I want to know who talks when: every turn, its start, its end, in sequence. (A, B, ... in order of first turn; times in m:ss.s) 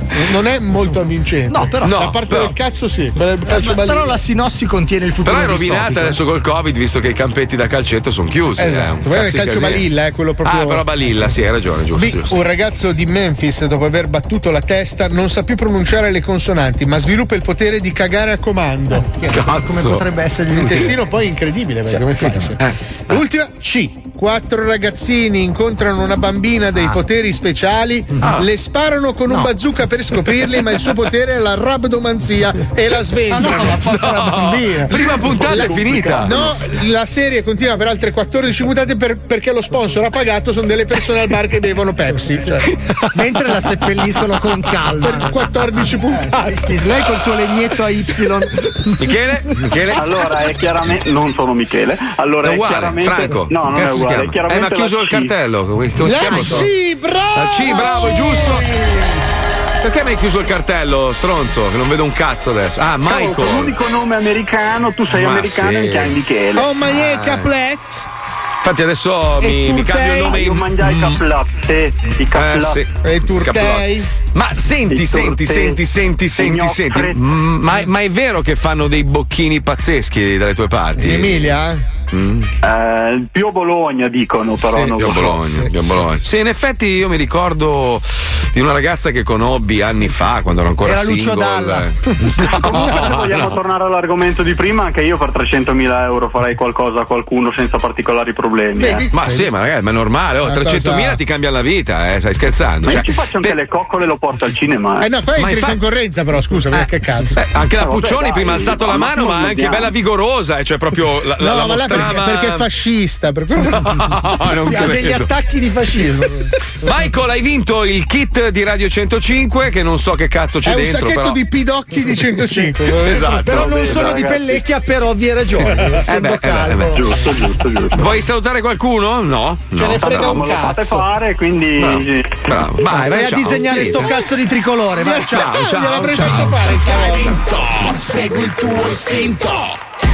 0:00.1-0:04.2 A
0:01.5-0:02.0 B
0:01.8-0:02.5 C
0:03.4-0:06.2 B
0:05.2-0:09.9 C
0:08.6-0:11.3 A
0:10.4-0:12.4 C
0:11.9-0:19.1 A
0:19.0-0:21.0 B
0:19.3-0:20.1 C
0:20.5-0:33.8 A
0:21.9-0:22.5 B
0:28.2-0:28.5 C
0:33.3-0:36.2 B
0:33.9-0:36.4 C
0:34.9-0:42.7 A
0:43.1-0:45.4 B
0:45.0-0:46.6 A
0:46.2-0:48.5 B
0:49.0-0:50.1 C
0:50.0-0:55.3 D
0:52.4-0:56.7 C
0:56.0-0:59.2 A
0:56.2-0:56.7 B
0:57.4-0:58.6 C
0:59.8-1:03.7 C
1:03.0-1:06.7 D
1:05.1-1:06.2 C
1:06.6-1:08.1 A
1:06.9-1:07.5 C
1:08.6-1:11.2 C
1:09.4-1:10.4 A
1:10.2-1:12.8 D
1:12.3-1:21.5 C
1:13.0-1:14.1 A
1:14.9-1:15.8 D
1:16.3-1:17.2 D
1:21.0-1:21.8 A
1:22.1-1:22.5 C
1:22.6-1:25.3 D
1:24.7-1:25.8 A
1:25.0-1:33.6 C
1:30.8-1:32.4 B
1:32.8-1:39.0 D
1:38.8-1:39.5 A
1:39.1-1:43.6 C
1:40.4-1:41.2 A
1:42.8-1:45.1 D
1:45.0-1:47.4 A
1:45.4-1:45.8 C
1:47.3-1:52.7 C
1:47.7-1:49.9 D
1:51.4-1:54.1 A
1:53.7-1:55.3 C
1:54.6-1:56.5 B
1:56.8-2:01.4 C
2:00.6-2:03.0 A
2:02.8-2:04.3 C
2:03.3-2:07.0 B
2:03.6-2:04.6 D
2:06.0-2:07.0 C
2:06.9-2:08.1 D
2:07.9-2:10.5 C
2:09.8-2:11.1 A
2:10.0-2:12.5 D
2:11.8-2:14.1 C
2:12.9-2:15.6 B
2:15.0-2:17.4 A
2:15.3-2:16.7 C
2:18.2-2:19.3 C